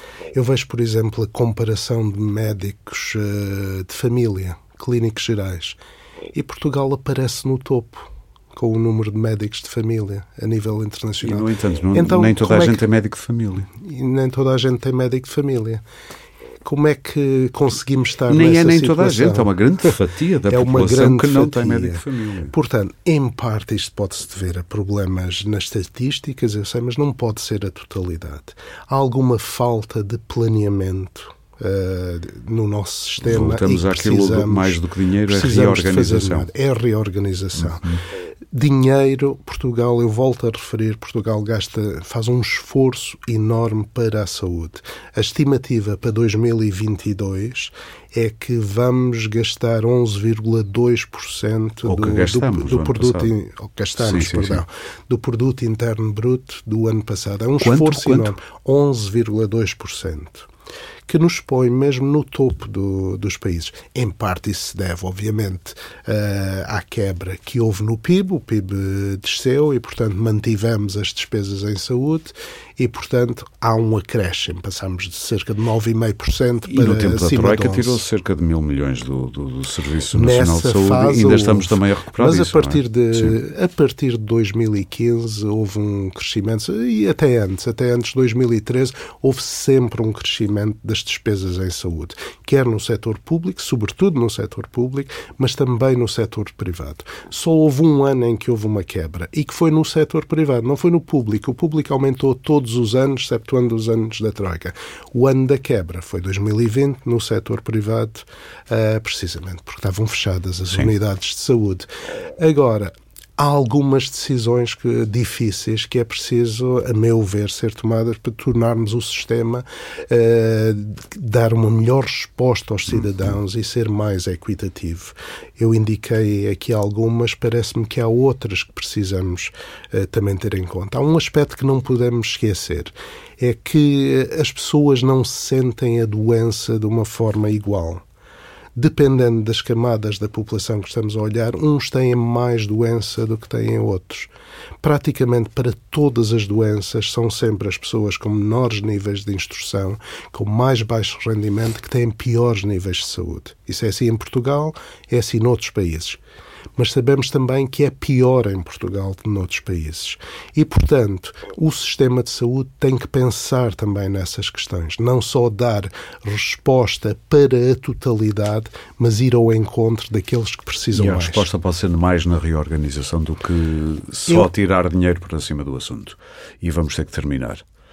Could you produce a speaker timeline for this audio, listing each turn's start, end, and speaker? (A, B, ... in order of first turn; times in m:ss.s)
0:00.3-0:05.8 A
0:06.3-0:12.8 A
0:11.2-0:13.7 B
0:13.7-0:15.8 A
0:16.6-0:19.9 A
0:18.3-0:22.5 B
0:20.5-0:37.9 A
0:33.2-0:36.5 B
0:37.7-0:38.0 B
0:38.5-1:00.5 A
0:51.8-0:53.3 B
0:54.0-0:54.6 B
0:57.6-0:58.3 B
1:01.1-1:18.0 A
1:16.7-1:23.3 B
1:20.1-2:18.0 A
2:18.7-2:24.3 A
2:24.8-2:36.2 A
2:36.8-2:51.5 A
2:50.9-2:57.6 B